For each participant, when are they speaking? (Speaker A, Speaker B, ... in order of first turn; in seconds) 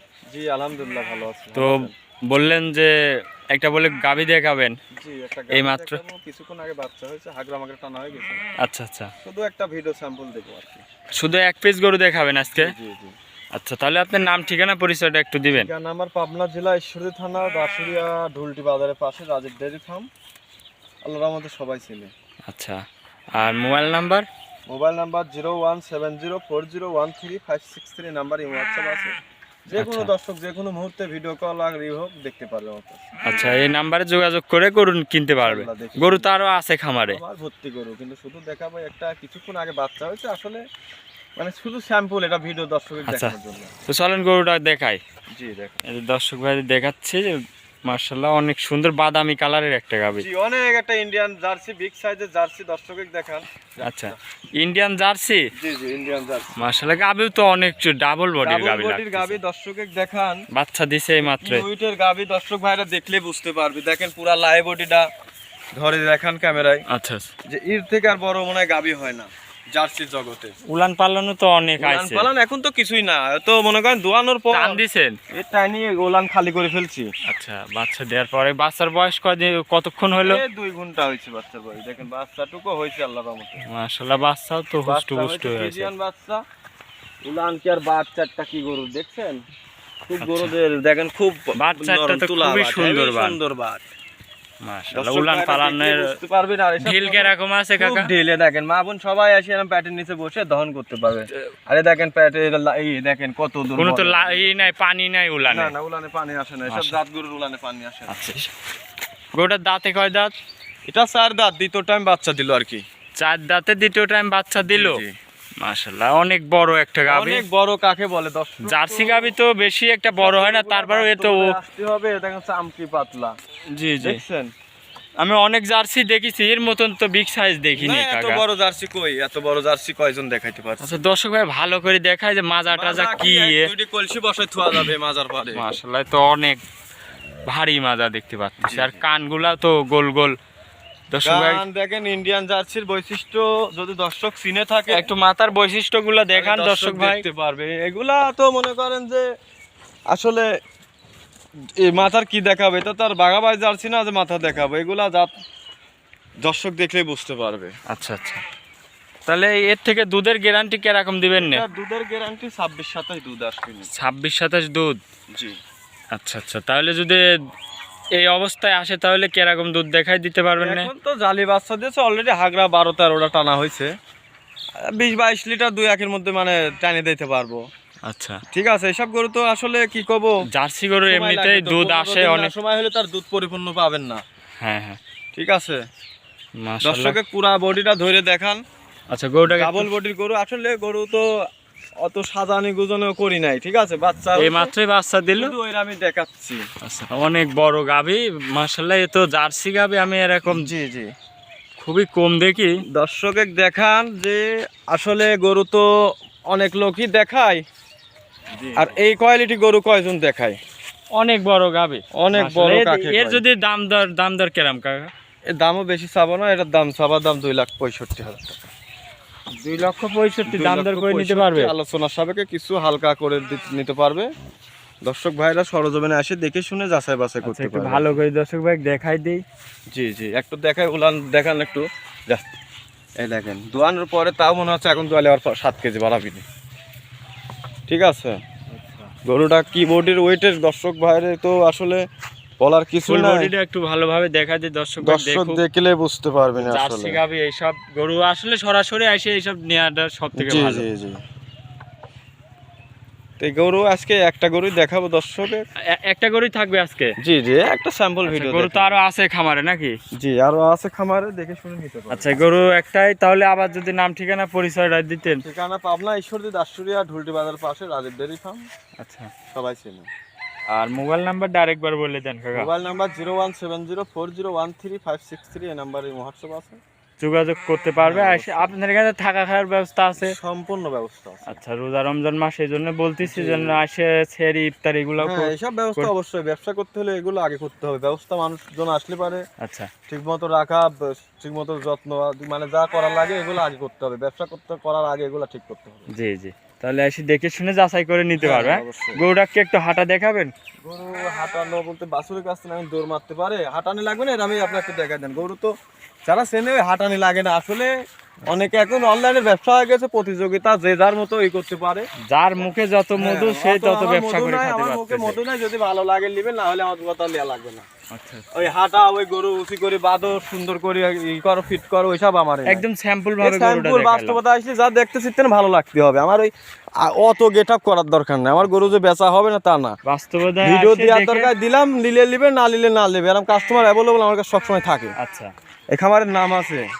Speaker A: 0.3-1.9, 4.9-8.4, 9.2-10.8, 12.6-13.2, 15.5-20.1, 21.0-22.1, 24.7-29.1, 29.7-33.1, 35.4-36.3, 37.1-40.6, 41.4-43.7, 45.4-45.8, 50.2-54.1, 55.6-56.5, 58.4-60.4, 61.1-65.0, 65.7-66.8, 67.5-70.5, 71.8-74.8, 75.3-77.1, 80.2-83.6, 84.8-86.4, 87.2-89.4, 90.1-93.8, 94.9-104.7, 105.4-108.2, 110.9-112.8, 114.7-115.1, 117.1-119.3, 120.1-123.3, 124.0-124.5, 127.7-131.0, 132.7-135.6, 138.6-139.0, 141.2-145.1, 146.3-149.2, 150.1-150.5, 151.8-155.3, 156.4-157.7, 161.4-163.9, 165.3-165.6, 170.6-173.9, 174.8-177.6, 178.5-180.3, 181.1-184.2, 185.3-185.8, 186.8-188.6, 189.5-191.2, 192.0-194.7, 195.3-196.6, 200.5-201.1, 202.9-205.8, 206.5-207.6, 208.8-210.6, 212.2-213.4, 215.5-218.6, 220.5-224.3, 225.1-228.2, 229.9-232.5, 233.2-236.4, 237.9-238.4, 239.2-242.0, 242.6-243.5, 245.0-247.2, 250.3-251.2, 253.4-255.6, 257.2-259.0, 260.2-262.4, 265.4-268.6, 269.5-270.1, 272.5-276.8, 278.0-278.7, 280.2-281.6, 283.2-283.8, 285.2-289.4, 290.1-296.1, 298.4-299.2, 300.8-305.7, 306.2-307.9, 308.5-312.1, 313.2-317.9, 318.5-322.8, 323.4-329.9, 330.6-335.1, 335.9-336.8
Speaker B: 1.5-2.9, 3.5-4.8, 5.5-6.0, 8.6-9.1, 11.2-12.7, 13.5-15.7, 22.5-22.8, 23.3-24.2, 29.8-30.1, 33.2-37.2, 43.1-43.3, 43.9-45.0, 45.9-47.3, 47.9-50.2, 53.8-55.5, 56.6-59.4, 60.5-61.6, 66.9-67.3, 70.7-72.2, 74.5-75.2, 77.3-80.4, 83.7-85.9, 90.2-90.5, 91.6-93.4, 94.6-96.1, 96.8-98.1, 103.8-105.7, 106.7-107.0, 108.1-108.5, 109.3-110.3, 113.2-115.0, 115.6-117.4, 118.6-121.5, 123.7-124.2, 125.2-128.4, 130.8-133.7, 135.5-136.6, 137.4-140.3, 141.1-141.6, 144.9-147.2, 157.9-158.4, 159.2-161.6, 163.9-165.0, 166.1-167.2, 168.2-170.9, 178.1-178.4, 180.5-182.5, 184.6-185.0, 186.6-187.2, 189.1-189.9, 194.3-195.5, 196.8-200.7, 201.8-202.8, 208.6-208.9, 211.1-215.1, 219.6-221.7, 227.4-229.4, 238.7-239.1, 243.1-245.6, 246.6-250.8, 255.9-257.1, 258.2-259.9, 262.1-265.4, 269.0-269.3, 270.7-272.7, 277.2-280.3, 281.5-286.1, 289.6-289.9, 296.1-300.5, 312.2-315.4, 318.1-318.7, 322.7-324.4, 330.1-331.5, 335.1-335.5